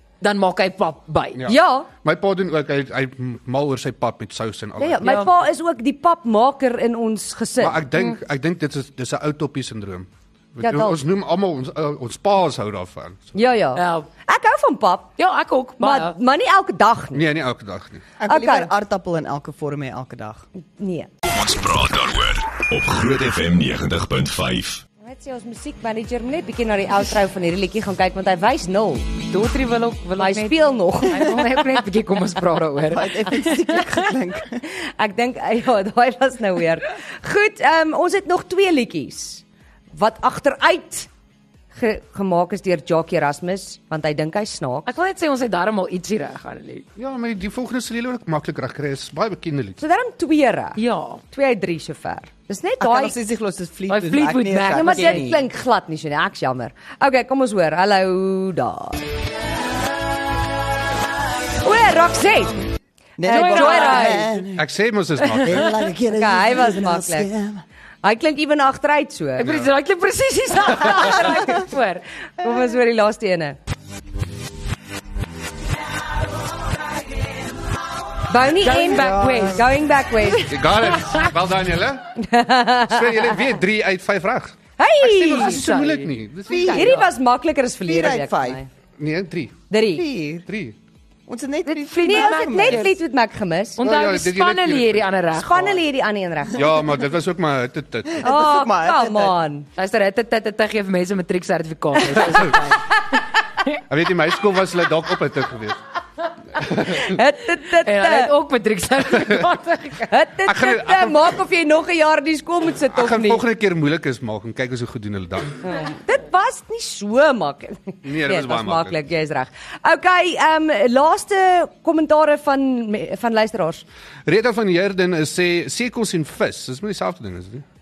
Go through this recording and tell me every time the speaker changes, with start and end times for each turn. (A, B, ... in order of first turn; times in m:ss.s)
0:00.2-0:01.4 A
0:01.4-0:05.1 B
0:01.4-0:01.9 C
0:04.8-0:07.8 C
0:05.0-0:05.3 A
0:07.6-0:13.4 B
0:10.6-0:11.0 C
0:13.4-0:15.1 C
0:13.7-0:14.1 A
0:15.2-0:16.2 A
0:15.8-0:17.2 C
0:17.1-0:18.0 B
0:18.2-0:20.5 D
0:18.3-0:18.7 C
0:20.8-0:21.1 C
0:21.2-0:24.8 E
0:25.0-0:29.1 C
0:29.3-0:34.1 A
0:30.2-0:31.8 C
0:32.9-0:34.7 D
0:35.0-0:39.4 C
0:39.9-0:41.1 C
0:41.7-0:44.9 C
0:44.9-0:46.9 A
0:47.0-0:49.8 B
0:49.8-0:50.8 C
0:50.8-0:51.2 A
0:51.3-0:53.2 C
0:52.8-0:55.4 D
0:53.9-0:55.4 A
0:54.7-0:59.1 C
1:01.6-1:02.7 C
1:03.2-1:04.6 D
1:03.2-1:04.4 C
1:03.3-1:04.3 A
1:04.6-1:05.7 B
1:05.4-1:07.6 D
1:06.1-1:07.3 C
1:08.0-1:09.5 C
1:09.4-1:12.0 A
1:09.4-1:09.7 B
1:10.8-1:11.6 C
1:12.4-1:13.6 C
1:18.3-1:20.5 C
1:18.6-1:19.7 A
1:19.0-1:19.6 D
1:20.3-1:21.3 A
1:20.5-1:22.2 B
1:22.2-1:23.3 C
1:22.8-1:26.9 B
1:24.8-1:25.6 C
1:25.0-1:26.1 A
1:26.5-1:27.0 D
1:26.6-1:27.1 A
1:26.7-1:28.7 C
1:27.9-1:28.6 D
1:29.0-1:29.6 B
1:29.7-1:30.1 C
1:30.0-1:30.5 D
1:30.5-1:30.8 B
1:31.3-1:32.9 D
1:31.6-1:33.0 A
1:32.0-1:33.8 C
1:33.8-1:35.8 A
1:33.8-1:35.1 B
1:35.3-1:36.8 C
1:36.5-1:38.2 B
1:38.2-1:39.7 C
1:38.2-1:39.4 D
1:39.8-1:43.0 A
1:42.1-1:42.5 C
1:43.9-1:45.8 B
1:46.6-1:47.2 B
1:47.0-1:48.3 C
1:47.8-1:50.2 A
1:50.1-1:53.4 C
1:50.4-1:51.4 B
1:52.9-1:55.8 B
1:55.6-2:03.8 C
1:58.0-1:59.0 B
2:04.3-2:07.6 B